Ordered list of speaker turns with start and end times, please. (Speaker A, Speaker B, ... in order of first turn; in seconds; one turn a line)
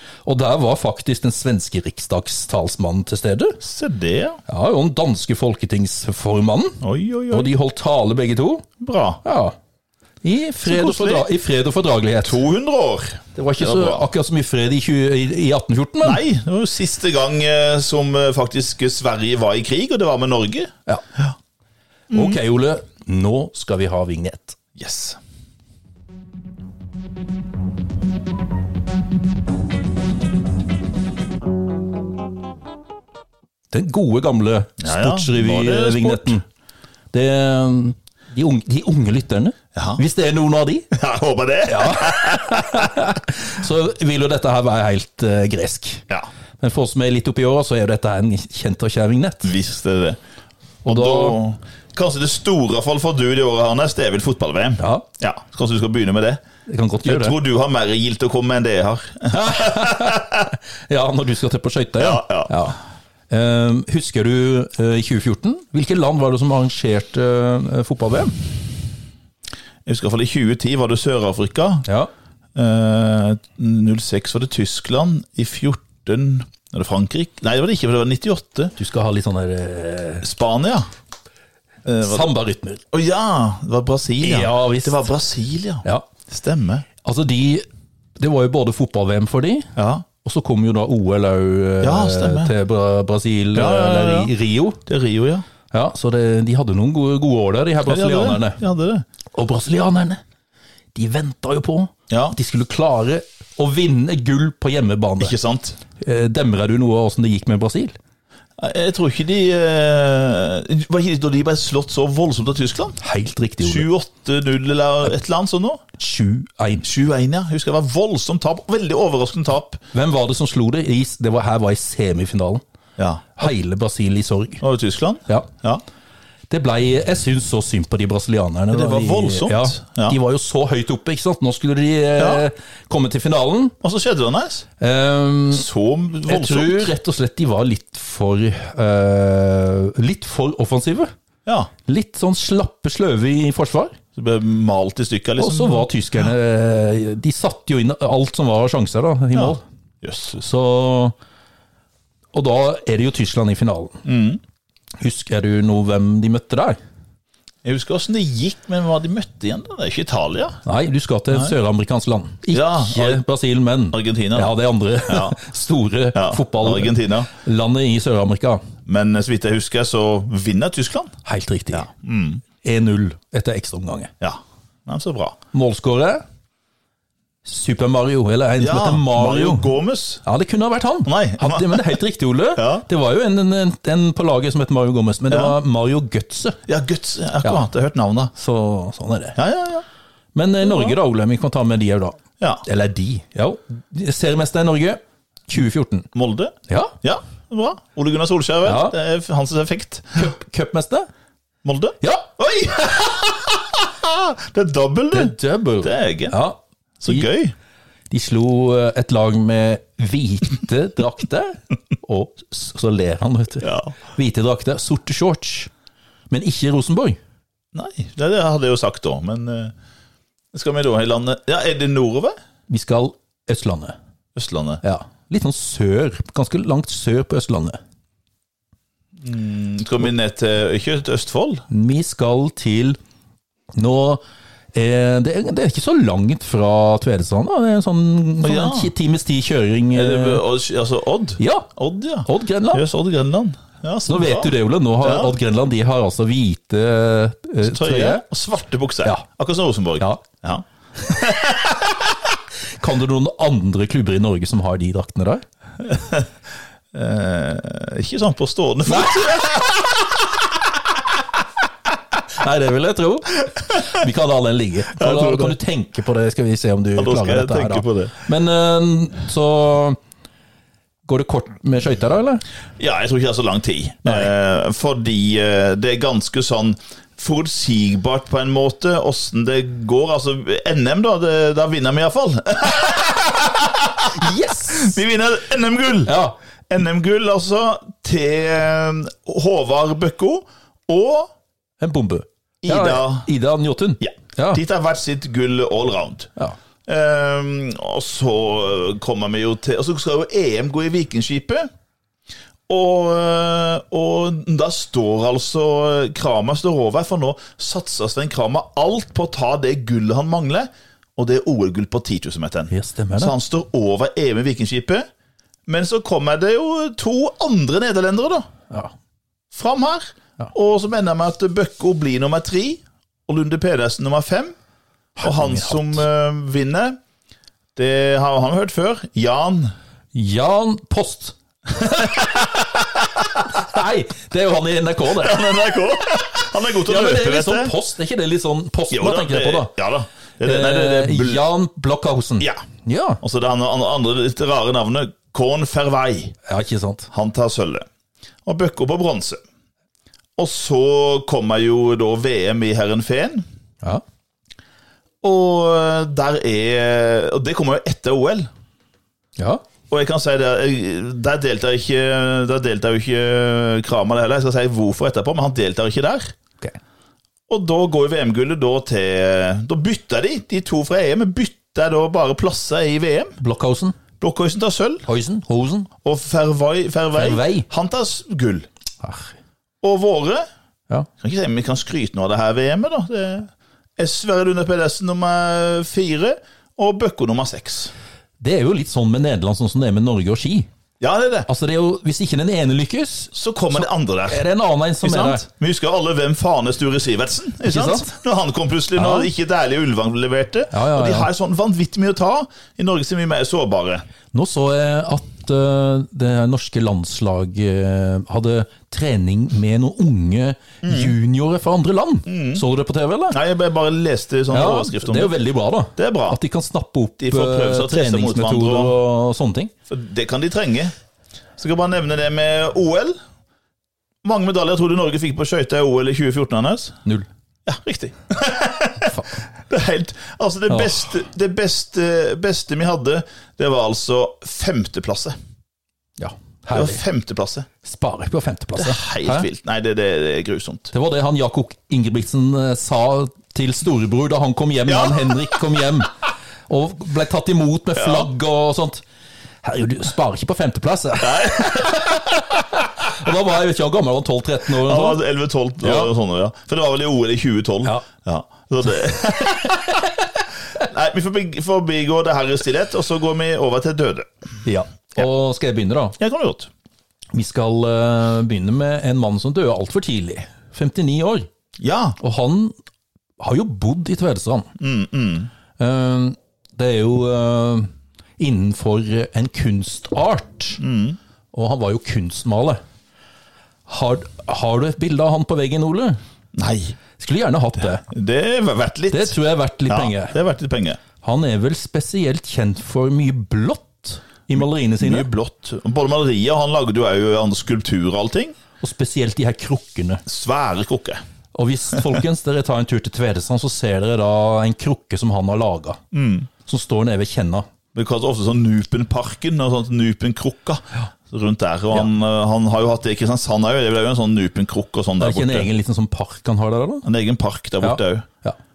Speaker A: 0.2-3.6
Speaker B: 3.6-4.4
Speaker A: 4.5-8.7
Speaker B: 6.8-7.5
Speaker B: 8.8-9.2
Speaker A: 9.2-9.6
Speaker A: 10.2-12.4
Speaker B: 10.6-11.2
Speaker B: 12.2-14.0
Speaker A: 13.3-16.2
Speaker B: 16.0-21.3
Speaker B: 22.1-22.4
Speaker A: 22.1-24.6
Speaker B: 24.8-25.2
Speaker A: 33.7-36.4
Speaker B: 34.8-36.4
Speaker A: 37.1-40.9
Speaker B: 39.7-40.0
Speaker B: 40.9-42.9
Speaker A: 41.6-46.0
Speaker A: 46.6-49.5
Speaker B: 49.4-50.2
Speaker A: 50.8-51.4
Speaker B: 50.8-56.4
Speaker A: 54.8-55.0
Speaker A: 56.6-57.3
Speaker B: 57.0-60.5
Speaker A: 59.3-62.8
Speaker B: 62.0-62.5
Speaker A: 63.3-68.4
Speaker B: 69.8-71.8
Speaker B: 72.5-78.7
Speaker A: 78.8-80.3
Speaker B: 80.2-80.9
Speaker B: 81.8-82.3
Speaker A: 82.0-82.8
Speaker B: 82.9-86.9
Speaker A: 84.2-85.0
Speaker A: 87.0-87.7
Speaker A: 88.2-94.8
Speaker B: 89.8-90.0
Speaker B: 91.8-92.5
Speaker B: 93.5-94.3
Speaker B: 94.8-95.4
Speaker A: 95.7-98.6
Speaker B: 97.8-99.0
Speaker A: 99.3-100.2
Speaker A: 100.9-105.3
Speaker B: 102.1-102.4
Speaker B: 105.2-105.8
Speaker A: 106.0-108.0
Speaker B: 108.6-113.0
Speaker A: 113.0-113.9
Speaker B: 113.6-115.8
Speaker A: 116.0-116.9
Speaker B: 116.8-119.8
Speaker A: 119.9-122.6
Speaker B: 123.0-123.4
Speaker A: 123.3-124.6
Speaker B: 124.6-125.8
Speaker A: 126.5-133.8
Speaker B: 128.7-130.2
Speaker B: 132.2-132.4
Speaker B: 133.8-134.7
Speaker A: 134.8-135.7
Speaker B: 135.5-136.9
Speaker A: 136.3-141.1
Speaker A: 141.8-144.0
Speaker B: 144.1-145.9
Speaker A: 145.4-149.6
Speaker B: 149.3-150.4
Speaker A: 150.3-151.1
Speaker A: 152.3-154.0
Speaker B: 154.0-154.4
Speaker A: 155.0-156.8
Speaker B: 157.6-160.6
Speaker A: 160.6-168.6
Speaker B: 162.5-163.2
Speaker B: 163.9-164.5
Speaker B: 165.1-165.4
Speaker B: 166.1-167.3
Speaker B: 168.8-171.1
Speaker A: 171.2-171.9
Speaker B: 171.7-172.4
Speaker A: 172.6-174.1
Speaker B: 174.2-175.4
Speaker A: 175.5-176.2
Speaker A: 177.4-179.7
Speaker B: 178.6-180.2
Speaker A: 180.2-186.6
Speaker B: 181.1-182.0
Speaker B: 182.6-182.8
Speaker B: 185.3-185.5
Speaker B: 186.7-188.3
Speaker A: 188.3-189.4
Speaker B: 189.3-189.8
Speaker A: 190.3-196.1
Speaker B: 190.6-190.9
Speaker B: 196.1-200.3
Speaker A: 196.7-196.9
Speaker A: 198.6-198.9
Speaker A: 200.2-201.1
Speaker B: 201.6-206.3
Speaker A: 202.0-202.3
Speaker A: 205.1-207.3
Speaker B: 207.0-207.5
Speaker A: 208.1-215.7
Speaker B: 213.6-213.9
Speaker A: 216.3-217.2
Speaker B: 217.7-219.7
Speaker B: 220.5-222.3
Speaker A: 222.7-223.9
Speaker B: 224.3-224.8
Speaker A: 224.8-227.8
Speaker B: 229.2-231.6
Speaker A: 231.7-233.0
Speaker A: 233.7-234.2
Speaker A: 234.7-240.4
Speaker B: 238.4-238.9
Speaker B: 239.9-245.3
Speaker A: 241.4-241.7
Speaker A: 242.2-242.9
Speaker A: 244.1-248.2
Speaker B: 247.6-252.2
Speaker A: 252.8-255.4
Speaker B: 255.8-256.3
Speaker B: 256.9-260.0
Speaker A: 258.9-259.7
Speaker A: 262.2-270.0
Speaker B: 264.9-265.6
Speaker B: 266.9-268.1
Speaker A: 271.1-272.4
Speaker B: 272.8-286.2
Speaker A: 284.0-284.9
Speaker A: 286.1-286.3
Speaker B: 286.7-291.3
Speaker A: 291.8-294.6
Speaker B: 292.6-293.3
Speaker B: 294.0-296.3
Speaker B: 296.9-301.7
Speaker B: 302.7-315.1
Speaker A: 312.7-313.3
Speaker B: 315.7-318.5
Speaker B: 319.5-324.6
Speaker A: 325.2-326.0
Speaker B: 325.2-327.0
Speaker B: 327.8-329.7
Speaker A: 330.1-335.5
Speaker B: 331.8-332.4
Speaker B: 335.1-337.7
Speaker A: 336.8-339.7
Speaker B: 338.9-341.4
Speaker A: 340.4-343.2
Speaker B: 343.2-346.4
Speaker A: 346.4-347.1
Speaker B: 347.1-347.9
Speaker B: 348.4-349.4
Speaker B: 350.4-353.4
Speaker B: 355.2-358.5
Speaker B: 359.9-366.3
Speaker B: 367.5-373.4
Speaker A: 373.4-374.0
Speaker B: 374.2-375.1
Speaker A: 375.1-375.9
Speaker B: 376.0-378.7
Speaker A: 377.1-377.7
Speaker A: 379.0-379.3
Speaker B: 379.8-380.4
Speaker B: 381.2-387.9
Speaker A: 388.4-390.7
Speaker B: 391.0-391.5
Speaker A: 391.5-395.4
Speaker B: 393.3-394.4
Speaker B: 395.0-404.0
Speaker A: 397.6-398.1
Speaker A: 398.9-399.3
Speaker A: 400.7-401.3
Speaker A: 404.3-413.4
Speaker B: 410.8-411.1
Speaker B: 412.3-412.6
Speaker B: 413.3-415.3
Speaker A: 414.5-419.7
Speaker B: 416.0-416.4
Speaker B: 417.2-418.9
Speaker B: 419.9-420.9
Speaker B: 421.6-423.2
Speaker B: 424.2-427.0
Speaker B: 427.6-435.3
Speaker A: 429.0-429.3
Speaker A: 430.7-431.0
Speaker A: 436.2-437.0
Speaker B: 436.7-437.7
Speaker A: 437.8-439.5
Speaker B: 438.8-440.9
Speaker A: 440.9-446.2
Speaker B: 444.9-445.6
Speaker A: 446.7-449.0
Speaker B: 447.9-448.3
Speaker A: 449.6-455.2
Speaker B: 451.2-452.2
Speaker B: 454.7-460.1
Speaker A: 455.8-456.1
Speaker A: 459.6-460.1
Speaker B: 460.8-464.3
Speaker A: 464.6-466.2
Speaker B: 466.2-466.7
Speaker A: 467.3-471.5
Speaker B: 471.8-472.2
Speaker A: 472.2-472.7
Speaker A: 473.4-474.7
Speaker B: 474.8-475.5
Speaker A: 475.8-480.8
Speaker B: 480.8-481.2
Speaker A: 481.5-482.8
Speaker A: 483.9-486.2
Speaker B: 486.5-486.9
Speaker A: 487.2-488.1
Speaker B: 488.0-489.4
Speaker A: 489.1-490.4
Speaker B: 489.9-491.0
Speaker A: 491.2-495.3
Speaker B: 495.0-498.5
Speaker A: 498.8-500.2
Speaker B: 500.2-501.2
Speaker A: 501.5-506.0
Speaker B: 506.1-506.5
Speaker A: 506.6-507.7
Speaker B: 507.9-515.7
Speaker A: 515.2-517.0
Speaker B: 517.0-518.3
Speaker A: 517.8-518.6